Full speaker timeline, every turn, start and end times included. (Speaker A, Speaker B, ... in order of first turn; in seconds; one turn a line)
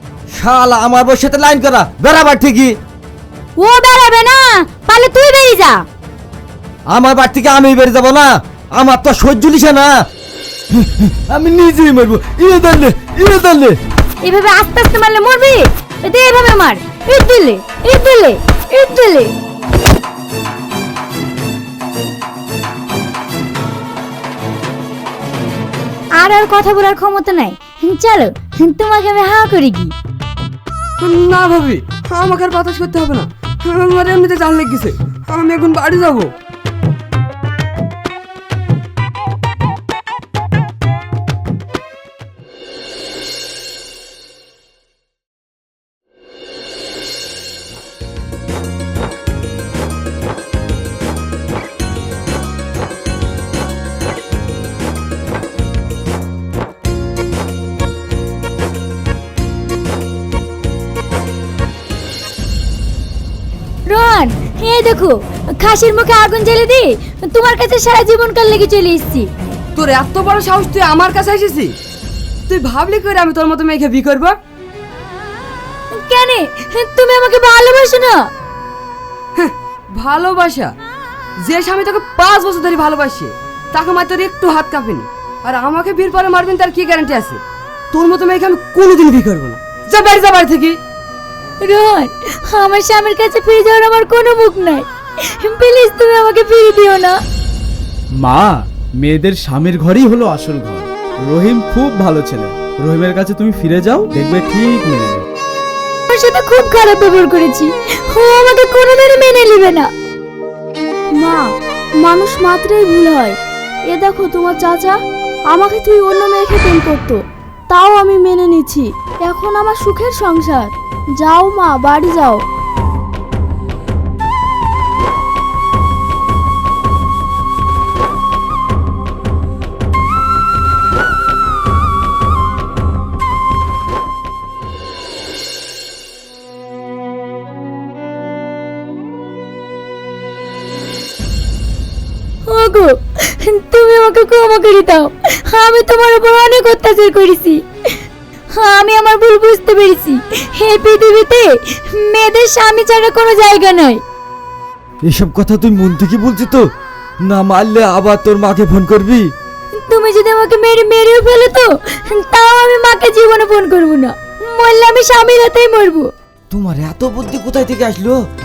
Speaker A: 0.3-2.7
Speaker B: 3.6-5.8
Speaker A: 6.9-9.9
Speaker A: 10.7-13.8
Speaker B: 14.2-19.3
Speaker B: 26.2-29.9
Speaker C: 31.0-36.3
Speaker B: 63.9-69.3
Speaker C: 69.8-71.8
Speaker C: 72.5-74.4
Speaker B: 75.9-78.3
Speaker C: 79.4-80.7
Speaker C: 81.4-90.8
Speaker B: 91.6-97.2
Speaker D: 98.2-105.3
Speaker B: 106.1-109.9
Speaker E: 111.2-113.4
Speaker E: 113.9-115.0
Speaker E: 115.5-122.5
Speaker B: 142.5-148.0
Speaker B: 148.5-154.0
Speaker A: 155.0-156.6
Speaker A: 157.2-159.3
Speaker B: 159.7-166.1
Speaker A: 166.5-168.2